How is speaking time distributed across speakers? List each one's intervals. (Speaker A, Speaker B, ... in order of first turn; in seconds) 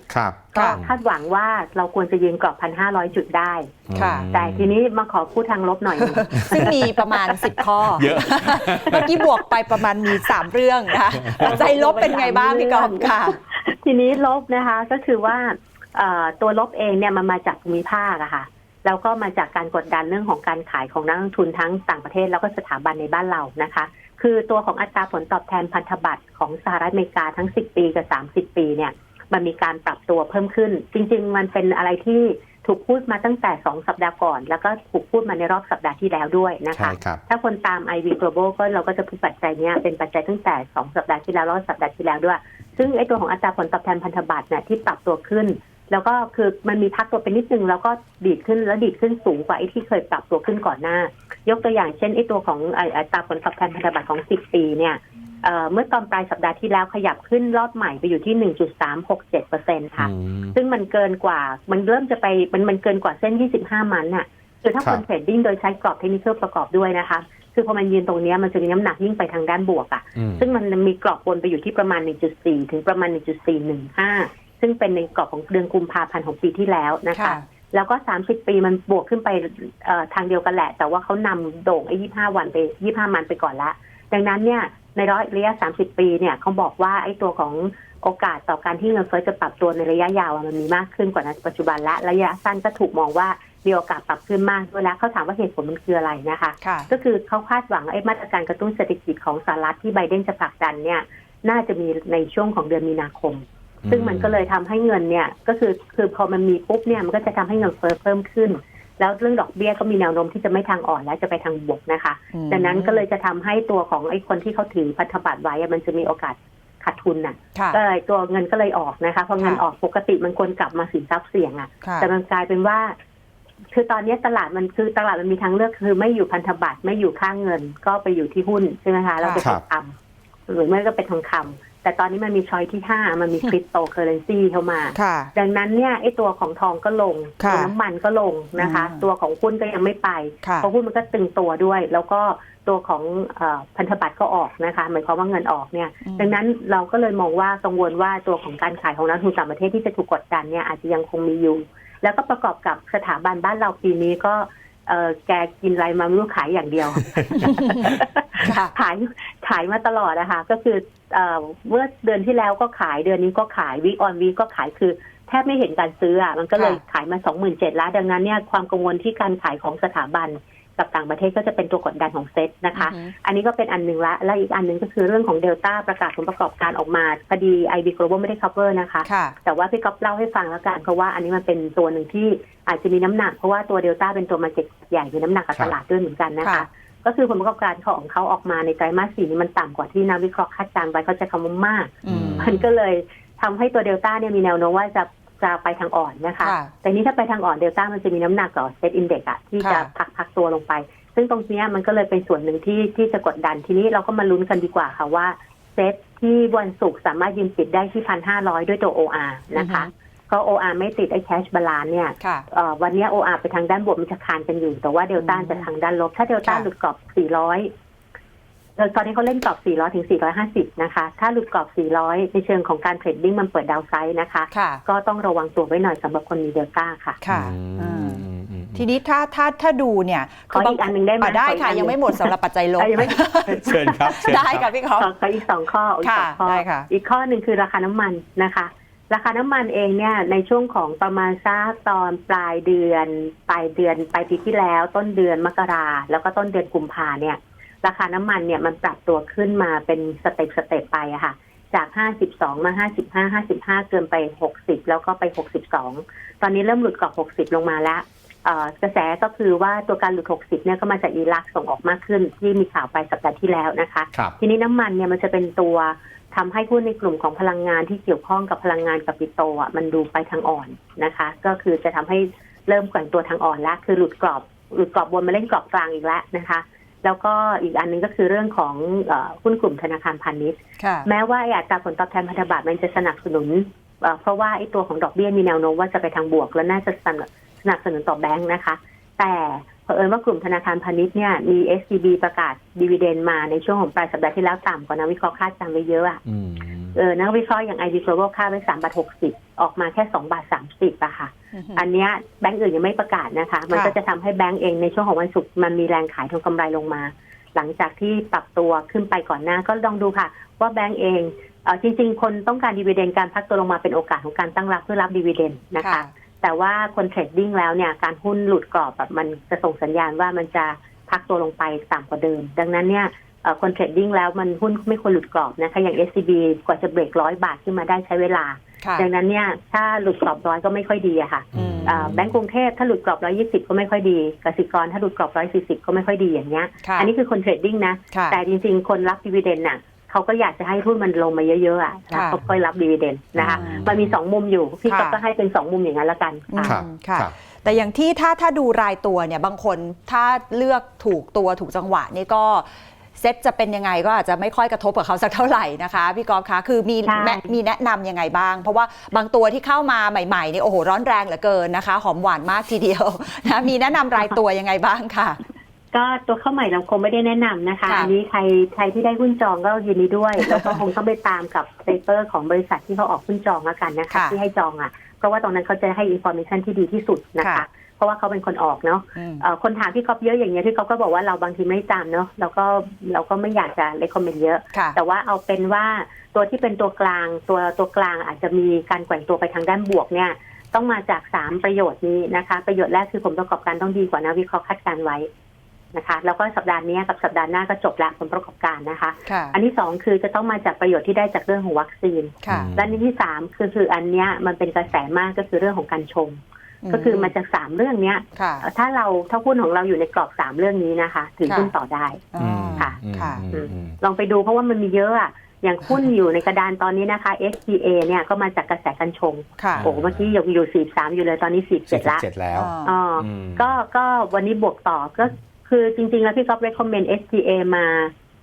Speaker A: 0.1-0.9, 3.9-4.7, 6.3-6.7, 7.5-9.1, 11.1-11.7, 36.7-37.2, 60.0-60.6, 70.2-70.5, 103.8-104.4, 192.1-192.5, 227.3-228.8, 233.6-234.7, 296.3-296.9, 331.5-332.3, 343.4-344.1, 346.6-347.3, 402.5-402.9, 412.4-414.0, 419.8-420.2, 421.9-423.7
Speaker B: 0.5-3.8, 4.3-7.5, 11.4-122.9, 123.7-129.9, 130.5-217.7, 218.8-227.2, 230.5-234.4, 235.0-296.2, 296.9-346.8, 357.1-357.5, 365.9-395.3, 395.9-412.2, 413.5-422.2, 422.8-428.1
Speaker C: 0.5-0.8, 4.0-4.3, 6.0-13.4, 77.1-77.4, 96.6-96.9, 112.3-113.0, 121.8-122.1, 129.2-129.5, 134.9-135.3, 137.4-137.7, 138.6-139.0, 140.4-140.7, 146.1-146.3, 157.4-158.7, 166.6-166.8, 172.8-173.1, 179.1-179.3, 186.4-186.7, 192.0-192.6, 196.4-196.7, 199.6-199.9, 209.6-209.9, 212.2-212.5, 215.2-215.7, 224.5-224.8, 227.2-228.2, 228.8-235.1, 236.0-236.9, 280.8-281.1, 301.6-301.8, 315.8-316.1, 328.8-329.1, 331.5-332.1, 336.8-337.1, 338.1-338.4, 342.1-342.4, 343.4-343.9, 344.9-345.2, 346.5-365.4, 367.9-368.1, 370.4-370.7, 374.1-374.4, 377.4-377.6, 379.1-379.4, 399.3-399.6, 402.4-402.7, 406.8-407.3, 408.4-408.6, 411.4-411.7, 412.3-413.4, 415.9-416.1, 419.6-419.9, 422.5-422.9